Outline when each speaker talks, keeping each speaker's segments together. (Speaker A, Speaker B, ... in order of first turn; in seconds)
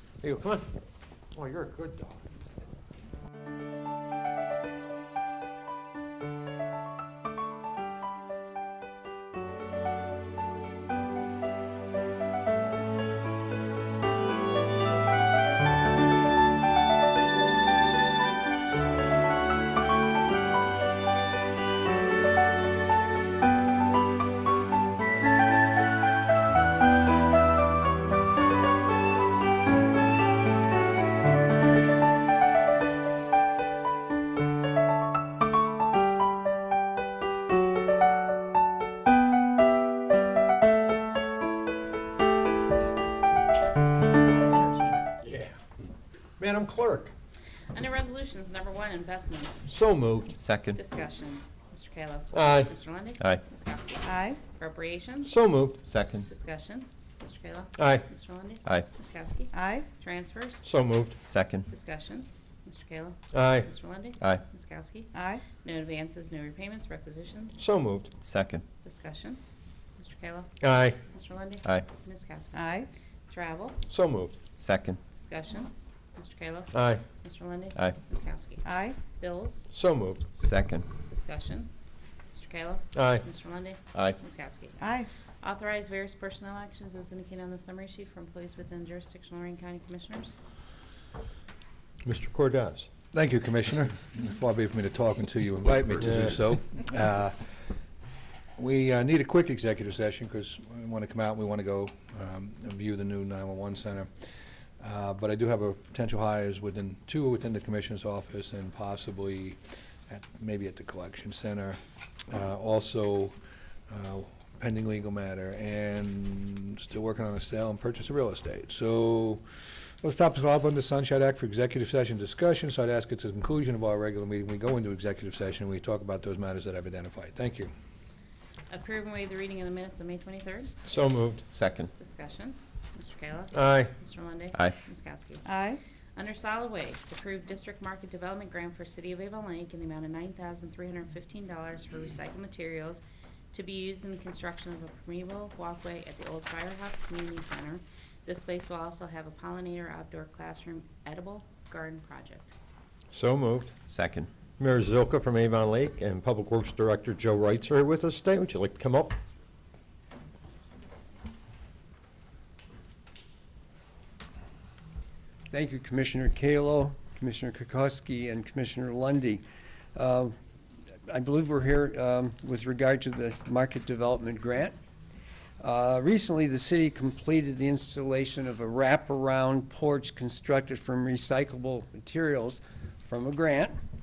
Speaker A: 0.2-0.7, 1.4-2.2, 44.6-45.5, 46.4-47.1, 49.7-50.3, 52.3-52.7, 55.2-55.8, 57.8-58.0, 60.6-61.2, 63.3-63.7, 67.6-68.1, 70.6-71.0, 73.9-74.4, 76.7-77.0, 79.7-80.3, 82.9-83.2, 92.0-92.9, 96.0-96.3, 130.9-131.4, 133.5-133.9, 153.1-153.7, 154.6-159.2
Speaker B: 47.7-49.7, 50.7-55.3, 56.3-60.7, 61.7-67.6, 68.8-69.4, 70.0-70.5, 71.1-72.7, 73.3-73.8, 75.1-79.7, 81.1-81.7, 82.3-84.8, 85.4-90.3, 128.7-130.7, 132.0-135.4, 136.2-152.5
Speaker C: 50.3-50.8, 55.8-56.3, 58.6-58.9, 61.2-61.7, 68.2-68.6, 71.6-71.9, 74.6-75.0, 77.8-78.0, 80.3-81.0, 83.9-84.2, 131.5-131.9, 153.9-154.3
Speaker D: 54.0-54.4, 59.5-59.9, 65.1-65.5, 72.5-72.9, 78.6-79.0, 84.8-85.1, 135.5-135.8
Speaker E: 93.1-97.3, 98.6-104.1, 104.8-113.3, 113.9-127.7
Speaker F: 165.5-169.4, 169.9-170.3, 171.1-174.7, 175.6-183.7